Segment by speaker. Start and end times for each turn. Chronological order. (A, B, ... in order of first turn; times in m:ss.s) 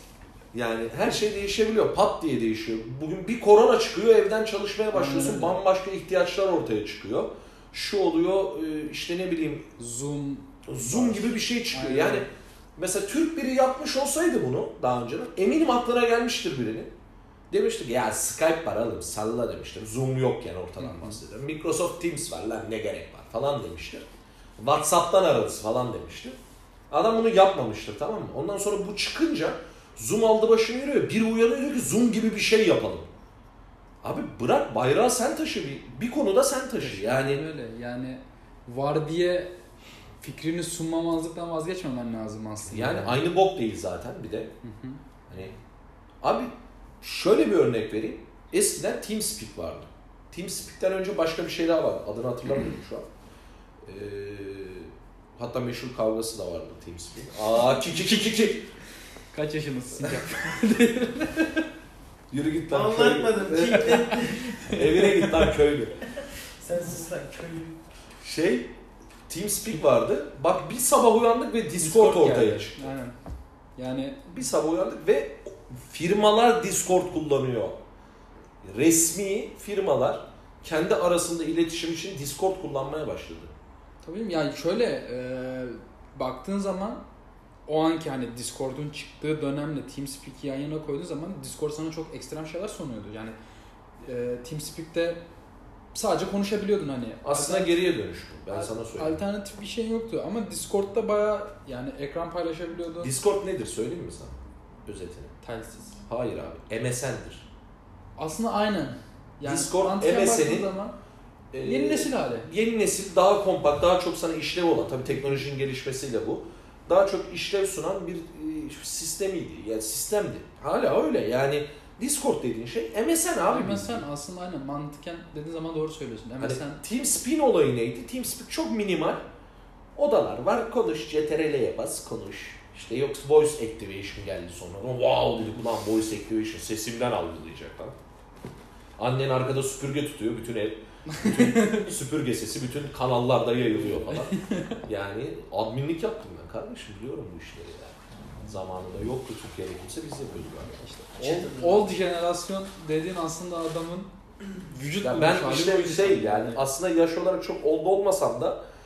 0:00.5-0:09.6 A
0:04.9-0:05.6 B
0:09.8-0:12.2 B
0:10.7-0:16.9 A
0:17.5-0:24.1 A
0:20.8-0:21.2 B
0:24.6-0:26.4 A
0:26.9-0:33.1 A
0:34.0-0:37.4 A
0:36.8-0:39.5 B
0:40.2-0:43.2 B
0:42.6-0:44.5 A
0:44.6-0:45.0 B
0:45.3-0:45.5 A
0:46.2-0:53.1 A
0:53.8-0:58.6 A
0:57.7-0:58.6 B
0:59.3-1:01.6 B
1:02.3-1:06.0 A
1:02.7-1:04.6 C
1:03.6-1:05.5 B
1:06.6-1:07.8 C
1:08.2-1:08.7 A
1:09.3-1:12.9 A
1:11.8-1:13.1 B
1:13.8-1:14.2 B
1:14.3-1:17.8 A
1:18.6-1:23.5 A
1:24.0-1:27.0 B
1:27.7-1:33.3 B
1:34.0-1:35.2 B
1:35.9-1:37.8 B
1:37.2-1:39.2 A
1:38.5-1:43.1 B
1:43.0-1:45.3 A
1:45.4-1:46.0 B
1:46.1-1:47.4 A
1:48.2-1:50.9 B
1:49.4-1:50.7 A
1:51.5-2:04.0 A
1:51.6-1:52.5 B
2:03.5-2:06.8 B
2:06.4-2:09.2 A
2:10.0-2:18.0 A
2:19.0-2:24.3 A
2:21.1-2:21.9 B
2:23.8-2:24.8 B
2:24.8-2:30.7 A
2:30.7-2:36.6 B
2:31.2-2:31.9 C
2:35.0-2:38.6 A